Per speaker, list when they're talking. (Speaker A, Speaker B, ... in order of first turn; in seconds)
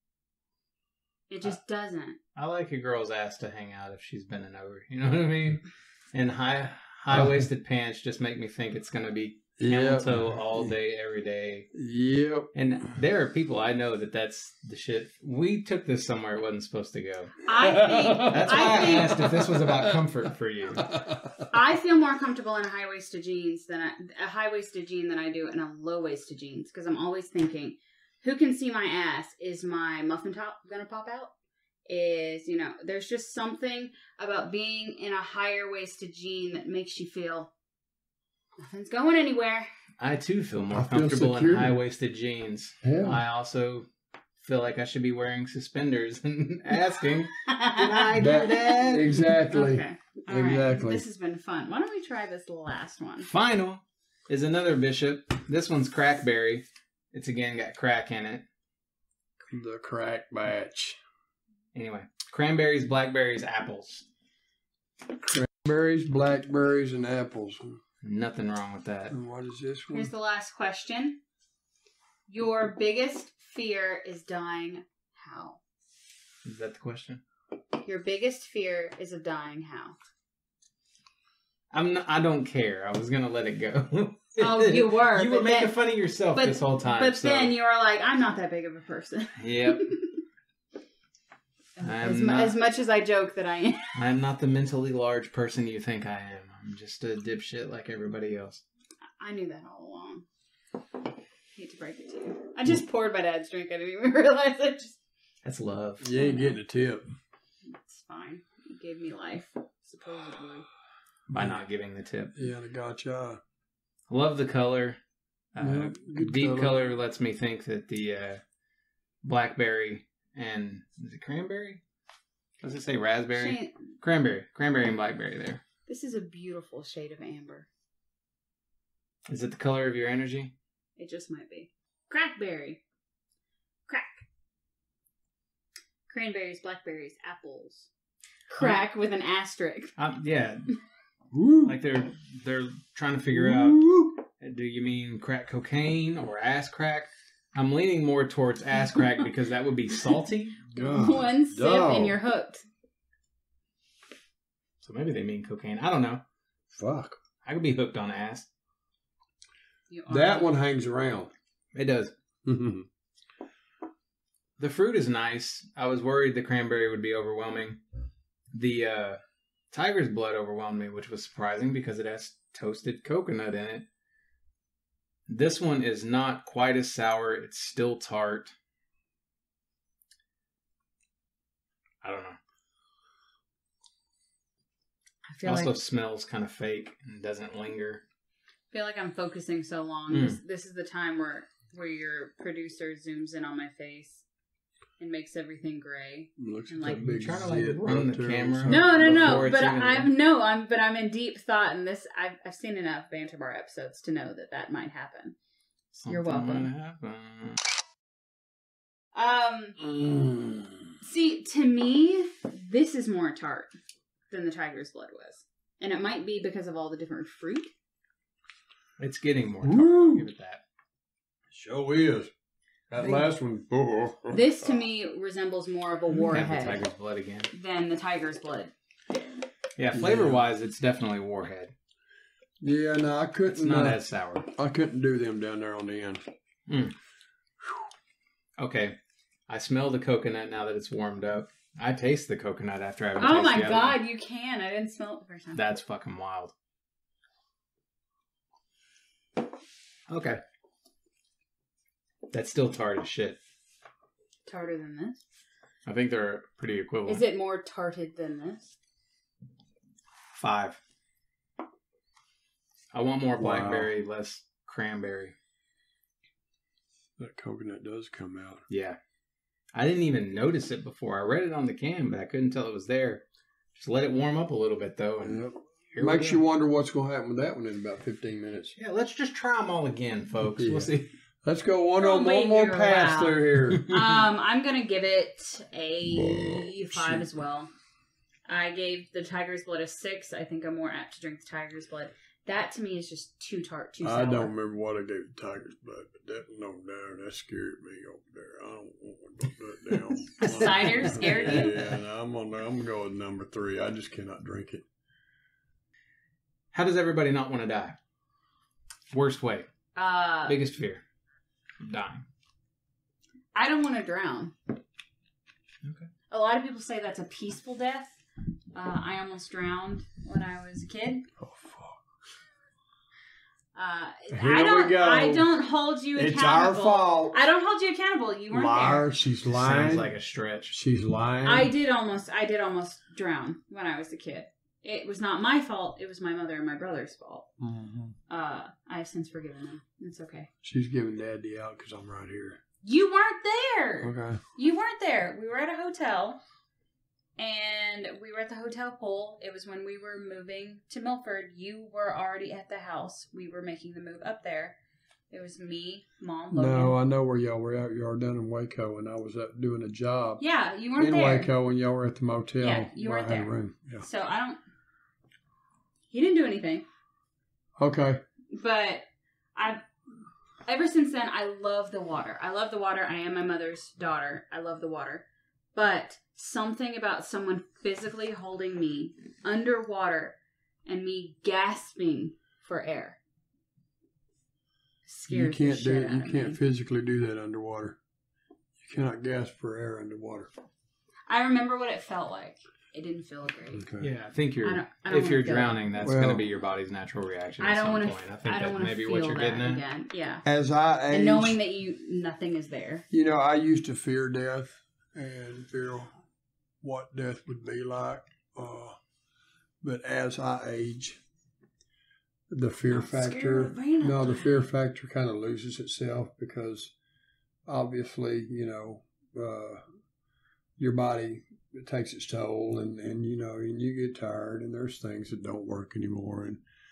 Speaker A: 1.3-2.2, 17.4-19.3, 21.5-31.3, 31.9-37.5, 38.6-39.7, 47.5-48.1, 49.5-53.3, 69.9-71.2, 72.3-75.6, 77.8-80.0, 84.4-85.8, 86.3-90.1, 91.8-94.0, 99.2-100.2, 101.5-105.0, 106.2-106.6, 107.7-110.7, 123.3-123.8, 125.9-127.7, 131.0-132.8, 133.9-134.2, 136.1-137.9, 138.5-139.9, 150.8-152.6, 159.9-160.5, 185.3-185.7, 188.7-194.2, 195.0-197.2, 198.7-205.4, 206.1-206.7, 209.1-209.8, 211.0-213.7, 214.3-217.7, 223.0-223.3, 224.3-226.8, 227.5-228.7, 243.2-245.7, 254.5-255.2, 257.1-258.7, 282.0-287.7, 288.5-294.5, 300.4-301.7, 310.0-310.6, 313.6-314.6, 316.3-318.2, 318.7-321.3, 323.8-329.1, 331.4-337.5, 338.3-340.5, 342.8-346.4, 347.4-354.8, 355.3-357.0, 360.4-361.5, 362.6-364.6, 366.1-366.9, 368.5-369.0, 369.6-369.8, 370.6-383.2, 385.1-386.6, 391.3-393.9, 394.6-395.8, 397.6-400.4, 401.1-403.1, 412.9-414.6
Speaker B: 2.4-11.7, 12.5-17.4, 18.1-20.9, 40.0-43.9, 44.4-49.3, 53.3-58.5, 61.7-64.1, 68.0-69.2, 76.5-77.2, 81.7-87.5, 89.4-90.0, 91.8-92.6, 94.0-98.6, 105.4-106.1, 111.3-112.3, 114.1-115.0, 115.5-118.4, 119.2-121.8, 122.6-125.6, 129.3-130.5, 140.0-140.7, 141.6-150.7, 154.8-156.2, 157.4-158.5, 161.7-162.1, 164.6-167.8, 168.5-169.2, 169.7-173.9, 175.3-178.5, 182.0-182.4, 185.4-188.0, 190.1-190.4, 196.9-200.1, 206.0-207.6, 219.0-220.6, 226.3-227.5, 229.8-231.7, 233.5-234.5, 236.7-236.9, 238.6-239.0, 239.5-244.0, 245.6-246.5, 250.1-250.4, 252.3-253.4, 255.8-257.2, 260.3-260.8, 262.9-265.4, 268.7-269.0, 269.7-273.2, 273.7-275.4, 275.9-276.4, 278.8-281.1, 300.4-301.9, 306.7-308.0, 309.1-309.7, 310.5-311.0, 311.8-312.2, 315.8-316.1, 329.4-330.8, 394.0-399.8
Speaker C: 7.1-7.5, 9.6-10.8, 11.7-12.5, 17.6-20.0, 20.8-21.5, 40.7-41.8, 42.8-43.2, 48.2-51.0, 59.5-61.0, 65.2-67.6, 69.1-70.1, 106.0-107.1, 112.3-113.4, 115.6-116.9, 141.3-141.8, 143.3-144.2, 150.7-152.2, 156.7-157.2, 160.1-161.3, 162.4-162.9, 196.4-199.5, 209.8-210.9, 219.6-220.3, 221.5-222.3, 222.9-224.7, 229.9-230.4, 232.6-234.0, 234.6-236.2, 263.4-263.9, 267.2-268.6, 275.2-278.7, 280.6-280.9, 281.4-283.9, 286.1-287.3, 294.0-304.9, 321.4-322.0, 324.3-325.5, 326.1-327.4, 328.5-330.1, 330.7-331.7, 337.6-338.1, 340.6-342.6, 344.0-344.4, 356.5-360.4, 361.0-364.1, 367.8-368.2, 385.3-388.0, 388.8-390.5, 393.8-394.1, 396.0-396.5, 400.4-401.6, 403.1-406.1, 406.8-409.0, 409.8-411.2, 412.5-416.9, 417.7-419.8, 420.8-426.6